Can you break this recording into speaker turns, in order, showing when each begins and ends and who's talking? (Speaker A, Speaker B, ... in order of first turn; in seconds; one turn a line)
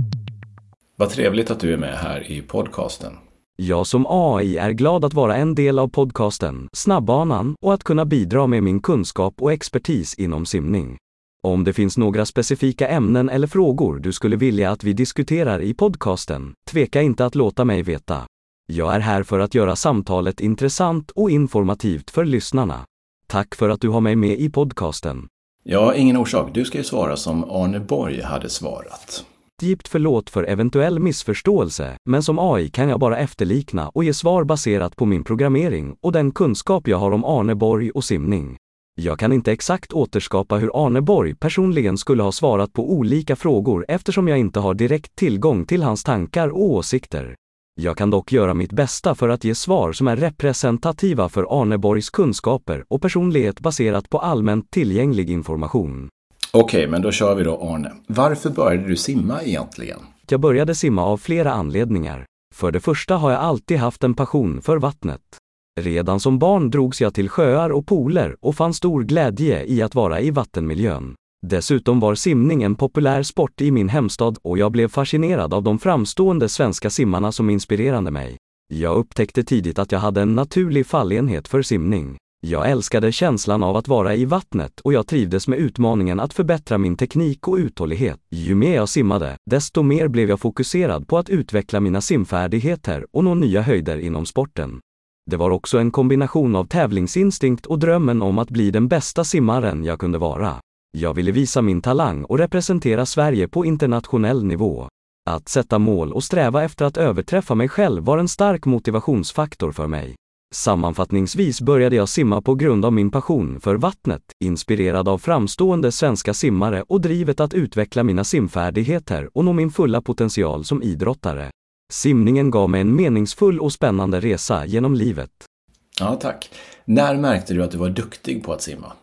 Speaker A: 1.0-3.2
Speaker B: 3.6-25.3
Speaker A: 25.6-29.2
Speaker B: 29.6-56.1
Speaker A: 56.5-60.0
Speaker B: 60.3-125.5
Speaker A: 126.0-128.9